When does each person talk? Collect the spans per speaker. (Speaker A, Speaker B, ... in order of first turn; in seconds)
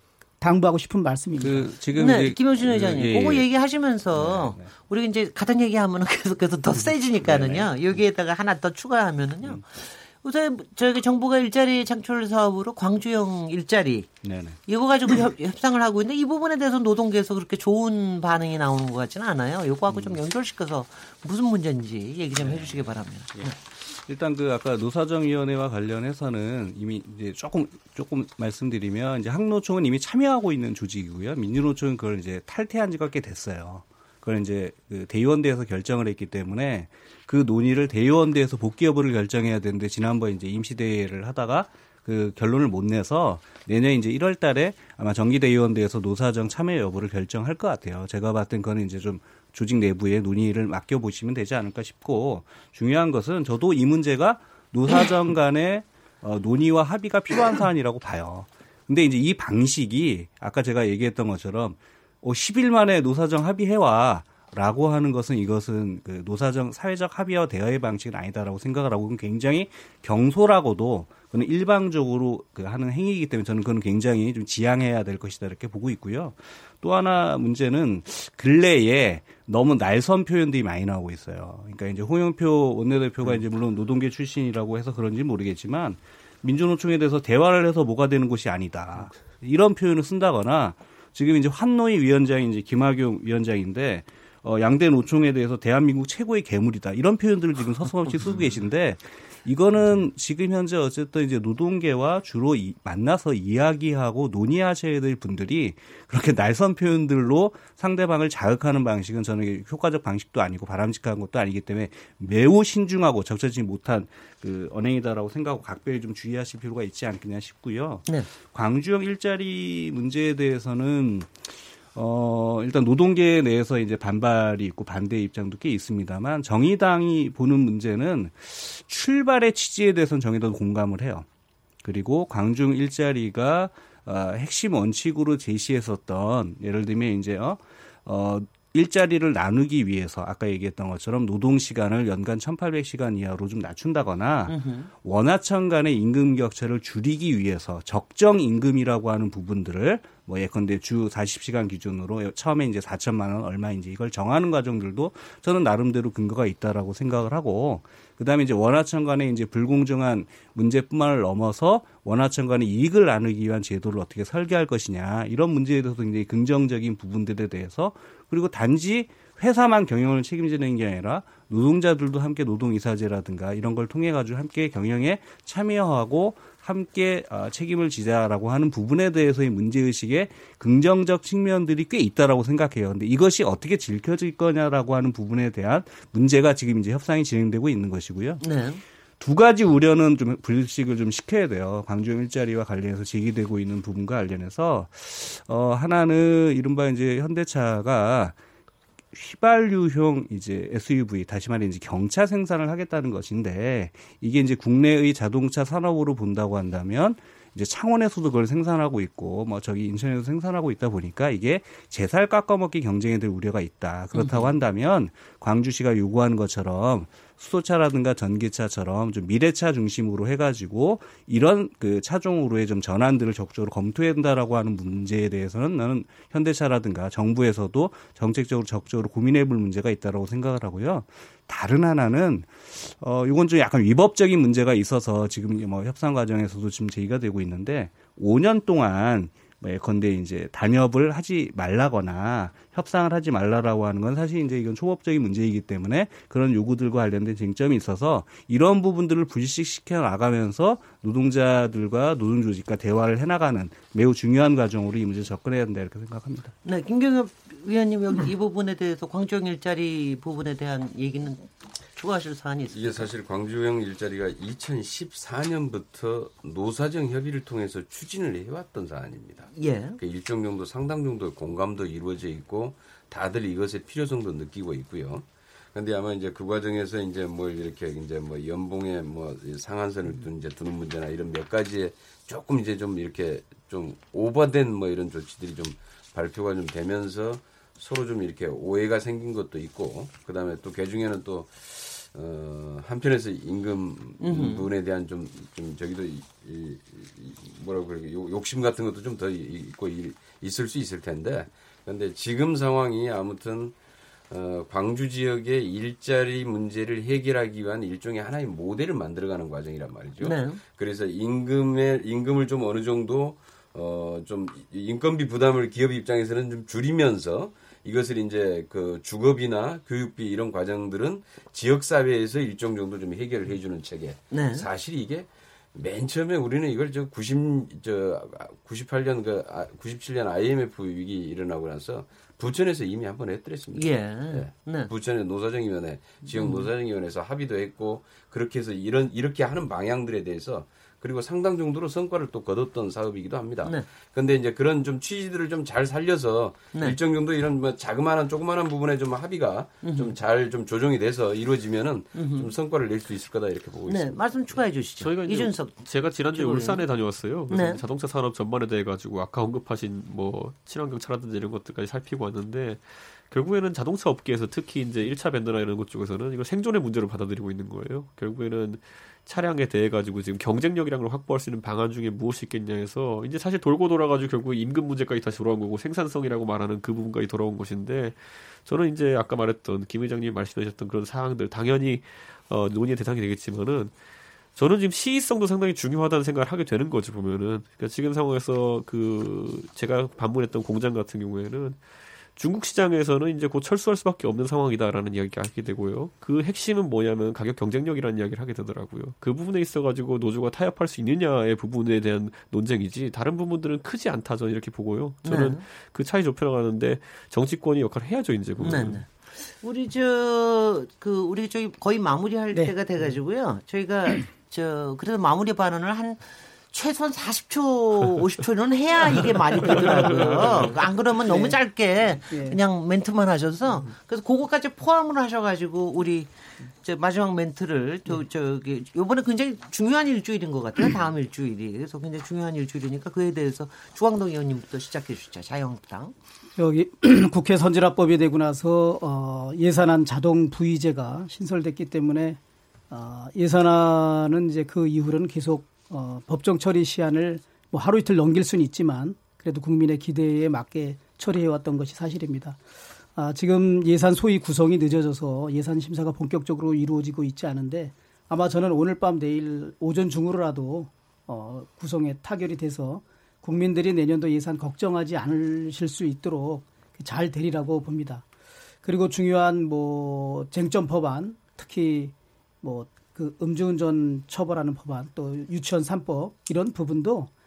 Speaker A: 0.4-1.7, 421.3-421.6, 422.3-422.6, 436.6-442.4, 442.9-452.6, 453.1-468.2, 468.8-477.3
Speaker B: 1.4-3.5, 4.1-4.7, 7.2-7.7, 14.2-14.6, 19.9-20.2, 22.4-131.2, 131.8-188.4, 189.2-198.3, 199.1-256.5
Speaker C: 1.9-14.1, 14.7-23.6, 144.5-144.9, 188.4-188.8, 214.1-214.5, 256.6-263.1, 269.5-270.0, 294.2-294.7, 310.2-310.6, 324.3-324.7, 333.7-334.9, 336.2-336.7, 343.6-343.9, 346.7-347.0, 349.8-350.1, 352.1-352.5, 353.9-356.9, 357.5-357.8, 405.2-405.6, 408.6-436.1
Speaker D: 262.7-303.7, 304.3-354.6
Speaker E: 355.0-383.9, 384.5-391.8, 392.4-409.0, 419.7-420.9